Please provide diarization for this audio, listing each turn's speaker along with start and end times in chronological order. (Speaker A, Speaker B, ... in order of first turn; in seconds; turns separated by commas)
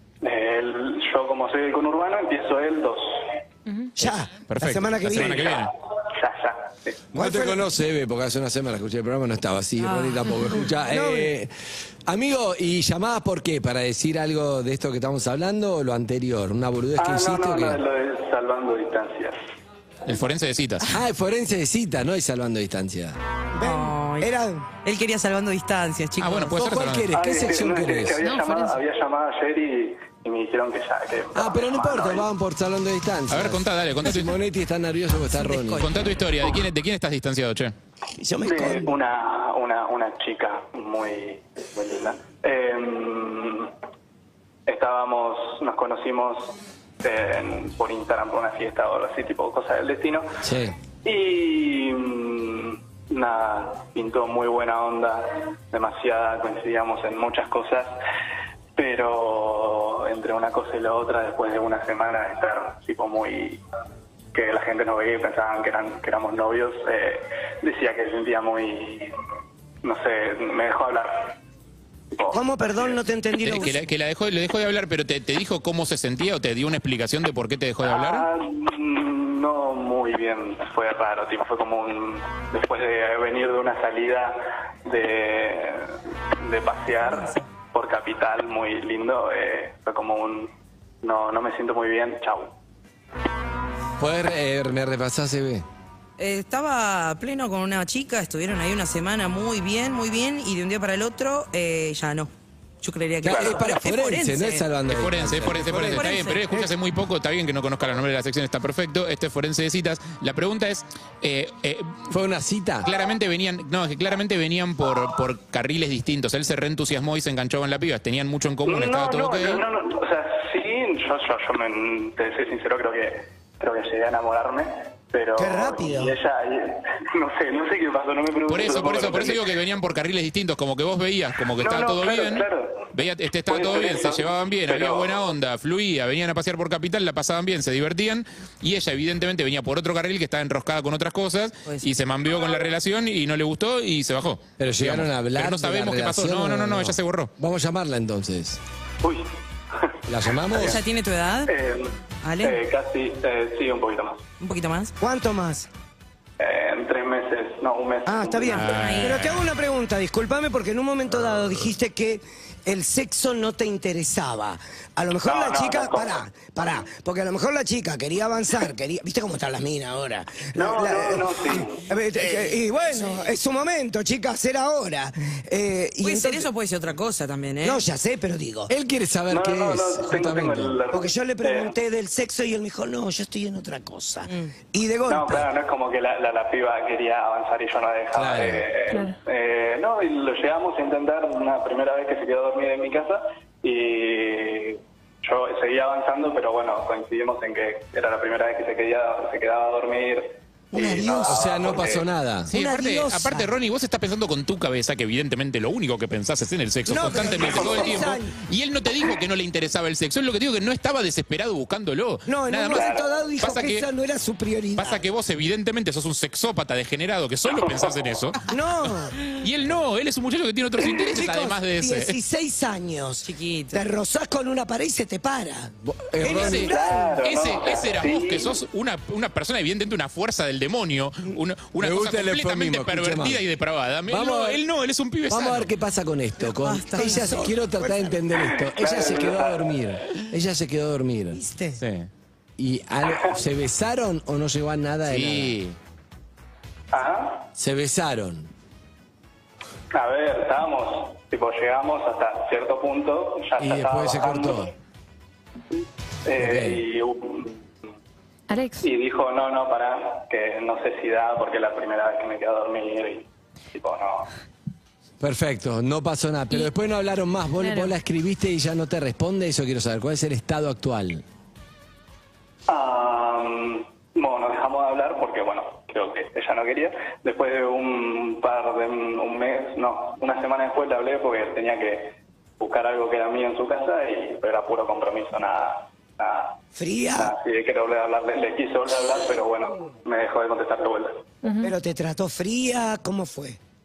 Speaker A: 0.2-3.4, Speaker B: 4.0-5.6, Speaker C: 4.5-5.7, Speaker A: 5.2-7.0, Speaker B: 7.1-7.6, Speaker D: 7.1-11.5, Speaker E: 9.8-10.5, Speaker B: 10.8-11.3, Speaker D: 12.1-17.8, Speaker A: 17.0-19.4, Speaker C: 20.1-20.9, Speaker D: 20.9-23.2, Speaker B: 23.5-24.7, Speaker E: 23.6-24.3, Speaker E: 24.9-26.6, Speaker C: 26.2-27.1, Speaker D: 26.5-28.2, Speaker A: 27.1-32.3, Speaker F: 28.2-28.8, Speaker D: 31.3-35.9, Speaker C: 33.3-34.4, Speaker E: 35.3-35.9, Speaker C: 35.8-37.7, Speaker B: 38.2-39.0, Speaker A: 38.4-43.7, Speaker A: 44.6-50.3, Speaker D: 50.4-50.8, Speaker A: 51.0-57.9, Speaker A: 58.8-63.6, Speaker A: 64.3-69.1, Speaker A: 69.8-71.3, Speaker A: 72.1-73.0, Speaker B: 72.3-73.8, Speaker C: 73.4-78.3, Speaker A: 77.8-90.5, Speaker A: 91.0-92.5, Speaker D: 94.0-95.7, Speaker E: 96.2-102.3, Speaker E: 102.8-104.7, Speaker D: 103.2-106.6, Speaker A: 103.3-103.7, Speaker C: 104.9-112.1, Speaker E: 105.9-106.6, Speaker D: 112.1-112.9, Speaker C: 112.8-119.6, Speaker A: 118.6-129.6, Speaker B: 125.4-126.1, Speaker C: 128.5-147.3, Speaker A: 131.6-132.9, Speaker A: 133.5-135.3, Speaker D: 144.6-148.6, Speaker A: 149.0-150.8, Speaker D: 150.1-150.8, Speaker E: 150.6-151.5, Speaker A: 151.5-154.2, Speaker E: 152.2-152.6, Speaker E: 154.4-154.9, Speaker B: 155.0-155.7, Speaker A: 156.4-158.9, Speaker B: 158.1-176.5, Speaker C: 158.5-159.5, Speaker E: 158.7-159.2, Speaker A: 165.2-166.2, Speaker A: 170.6-171.9, Speaker E: 176.0-177.8, Speaker B: 177.6-178.7, Speaker D: 178.7-180.8, Speaker A: 179.3-181.8, Speaker B: 180.9-185.5, Speaker A: 185.1-202.1, Speaker D: 188.1-188.7, Speaker F: 188.9-189.1, Speaker B: 200.7-201.5, Speaker D: 201.2-202.5, Speaker C: 202.5-213.9, Speaker B: 202.5-203.5, Speaker B: 206.9-208.3, Speaker A: 207.3-208.0, Speaker B: 212.3-215.0, Speaker A: 212.7-213.1, Speaker C: 214.8-218.4, Speaker A: 217.5-218.0, Speaker B: 218.5-219.2, Speaker C: 219.3-222.2, Speaker B: 221.0-227.2, Speaker E: 223.2-223.9, Speaker D: 225.8-226.7, Speaker C: 226.3-235.7, Speaker A: 226.5-228.6, Speaker D: 231.8-233.4, Speaker D: 234.1-234.6, Speaker D: 235.3-241.4, Speaker E: 236.5-237.5, Speaker B: 236.9-238.2, Speaker A: 238.4-239.9, Speaker B: 241.3-241.8, Speaker C: 241.8-242.1, Speaker D: 242.6-245.6, Speaker C: 245.1-245.8, Speaker A: 246.9-247.5, Speaker D: 247.6-248.5, Speaker A: 249.9-254.7, Speaker D: 253.6-254.7, Speaker A: 256.3-257.6, Speaker D: 256.4-256.8, Speaker F: 258.5-258.9, Speaker A: 258.8-264.3, Speaker D: 265.2-271.2, Speaker F: 267.6-267.9, Speaker A: 272.7-286.6, Speaker B: 286.8-287.4, Speaker A: 287.1-291.2, Speaker F: 291.4-291.7, Speaker B: 291.6-293.6